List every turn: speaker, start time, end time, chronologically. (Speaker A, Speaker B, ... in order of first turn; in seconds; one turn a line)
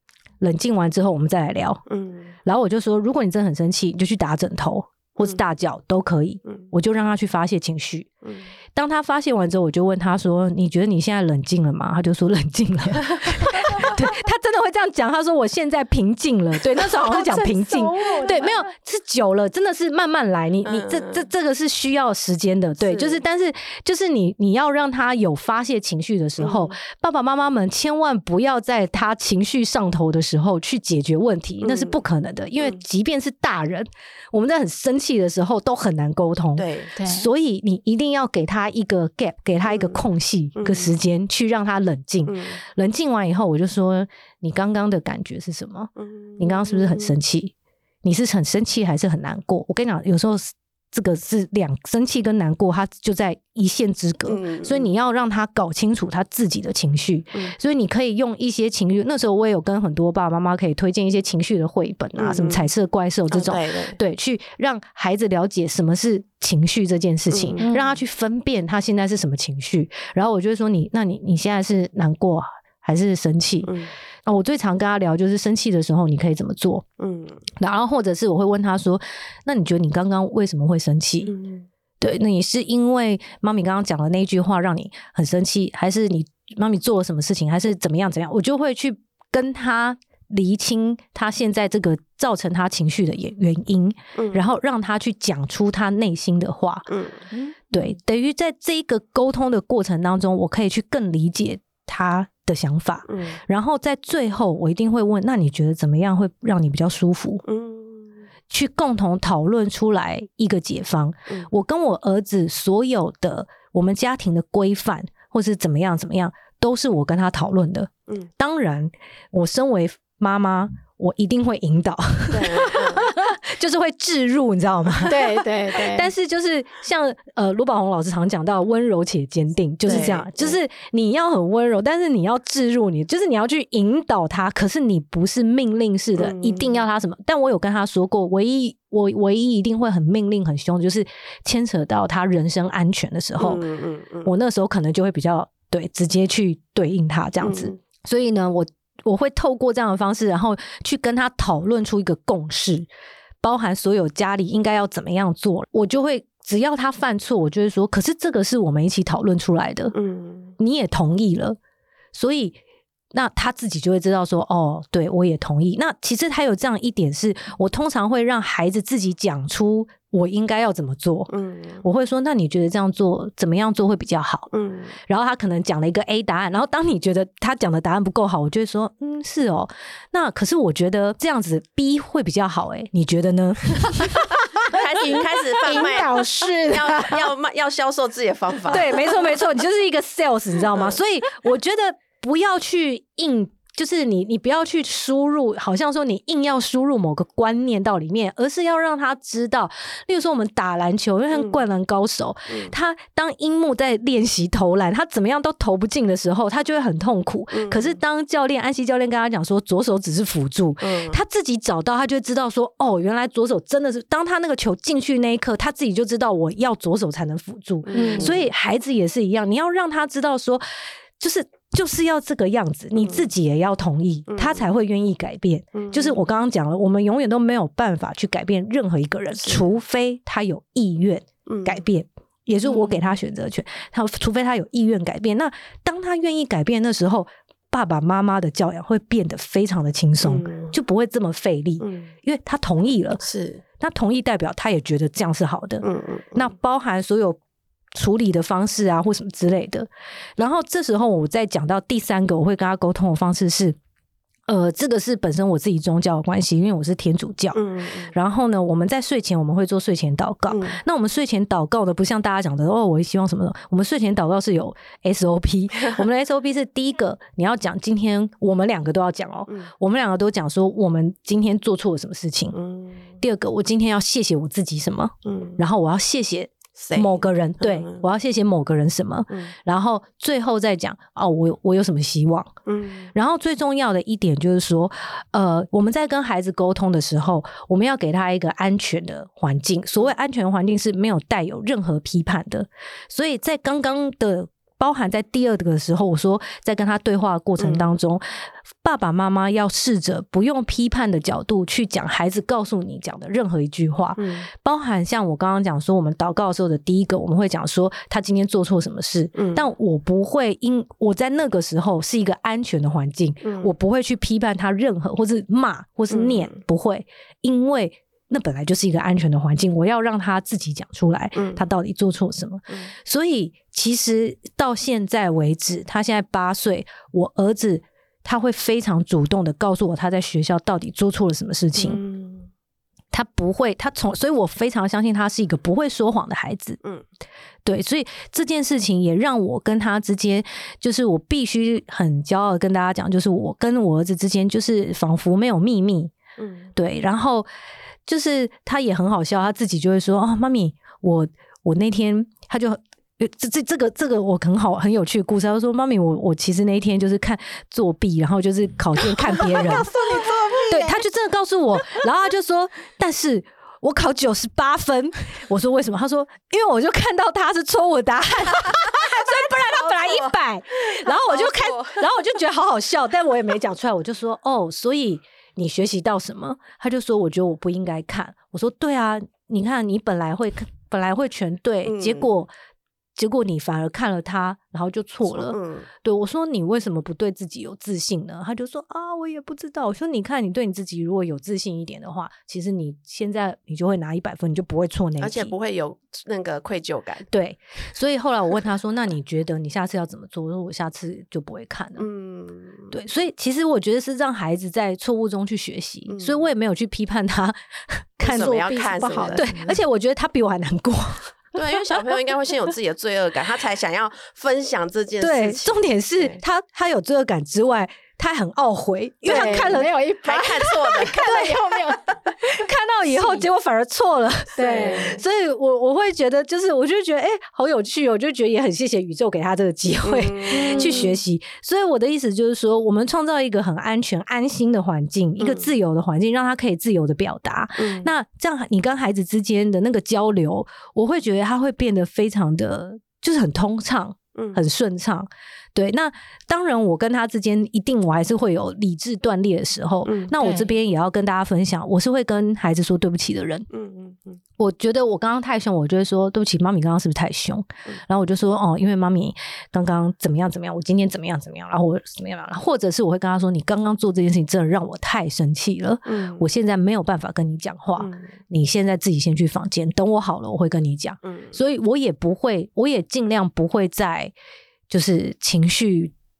Speaker A: 0.4-1.8
Speaker B: 1.9-2.3
Speaker A: 2.4-8.1
Speaker B: 8.2-8.5
Speaker A: 8.7-73.7
Speaker C: 16.8-18.7
Speaker B: 20.6-21.2
Speaker B: 22.8-23.2
Speaker B: 26.4-26.7
Speaker B: 31.6-32.0
Speaker B: 36.5-36.9
Speaker C: 37.0-37.3
Speaker B: 39.7-40.0
Speaker B: 40.5-40.9
Speaker B: 42.3-42.6
Speaker B: 46.0-47.1
Speaker B: 54.3-54.9
Speaker B: 62.1-62.7
Speaker B: 63.3-64.0
Speaker B: 67.3-67.7
Speaker C: 67.6-68.0
Speaker B: 73.6-73.9
Speaker A: 74.2-76.8
Speaker B: 77.0-77.4
Speaker A: 77.6-81.3
Speaker B: 81.3-81.7
Speaker A: 82.0-96.9
Speaker B: 94.1-94.4
Speaker B: 96.9-97.2
Speaker C: 97.3-97.6
Speaker A: 97.7-107.4
Speaker B: 103.1-103.4
Speaker B: 107.4-108.2
Speaker A: 108.5-125.2
Speaker B: 122.3-123.1
Speaker C: 125.1-126.1
Speaker A: 125.8-143.6
Speaker B: 129.8-130.6
Speaker B: 136.2-136.8
Speaker B: 143.4-144.3
Speaker A: 144.2-152.9
Speaker B: 147.4-147.7
Speaker A: 153.4-159.9
Speaker B: 159.9-160.5
Speaker A: 160.6-161.6
Speaker A: 162.1-162.6
Speaker A: 163.1-171.3
Speaker B: 171.3-171.8
Speaker A: 171.8-174.5
Speaker B: 174.5-175.0
Speaker A: 175.1-184.2
Speaker B: 184.6-189.2
Speaker C: 184.7-187.2
Speaker A: 188.7-243.2
Speaker B: 190.7-191.0
Speaker B: 201.3-201.6
Speaker B: 207.5-208.0
Speaker B: 210.8-211.2
Speaker B: 217.8-218.4
Speaker C: 217.9-218.3
Speaker B: 223.0-223.3
Speaker B: 224.3-224.7
Speaker B: 225.7-226.2
Speaker B: 229.3-229.6
Speaker B: 231.4-231.8
Speaker B: 240.2-240.7
Speaker B: 241.8-242.1
Speaker B: 243.2-243.6
Speaker A: 243.8-247.4
Speaker B: 245.8-246.5
Speaker A: 247.9-253.8
Speaker A: 254.5-272.6
Speaker B: 257.5-258.1
Speaker B: 260.5-260.8
Speaker B: 272.5-273.1
Speaker A: 273.2-282.5
Speaker B: 275.2-275.6
Speaker B: 276.8-278.1
Speaker B: 282.7-283.1
Speaker A: 283.1-332.0
Speaker B: 297.6-297.9
Speaker B: 304.2-304.5
Speaker B: 309.4-309.7
Speaker B: 313.4-313.7
Speaker B: 316.1-316.6
Speaker B: 321.3-321.6
Speaker B: 331.8-332.5
Speaker A: 333.1-336.8
Speaker A: 337.6-346.1
Speaker B: 346.4-346.7
Speaker A: 346.8-347.5
Speaker A: 348.1-359.9
Speaker C: 359.5-361.0
Speaker A: 360.7-382.5
Speaker B: 368.6-370.3
Speaker B: 370.9-372.0
Speaker B: 381.8-382.3
Speaker A: 383.1-395.5
Speaker B: 385.3-385.9
Speaker B: 395.2-397.3
Speaker A: 397.3-402.1
Speaker B: 402.0-402.9
Speaker A: 402.9-411.9
Speaker B: 406.1-406.4
Speaker B: 408.2-409.5
Speaker C: 409.3-409.7
Speaker B: 411.5-416.4
Speaker A: 415.2-419.9
Speaker C: 419.2-422.4
Speaker B: 419.3-421.6
Speaker A: 420.9-421.6
Speaker A: 422.2-453.7
Speaker C: 423.1-423.5
Speaker C: 424.6-425.2
Speaker B: 424.6-425.2
Speaker B: 430.0-431.2
Speaker C: 430.5-431.1
Speaker B: 435.4-435.7
Speaker B: 437.8-438.1
Speaker B: 444.3-444.6
Speaker B: 450.0-450.6
Speaker C: 450.4-450.7
Speaker B: 453.7-454.4
Speaker A: 454.6-474.3
Speaker B: 466.1-466.4
Speaker B: 468.0-468.2
Speaker B: 471.2-471.6
Speaker A: 474.9-476.1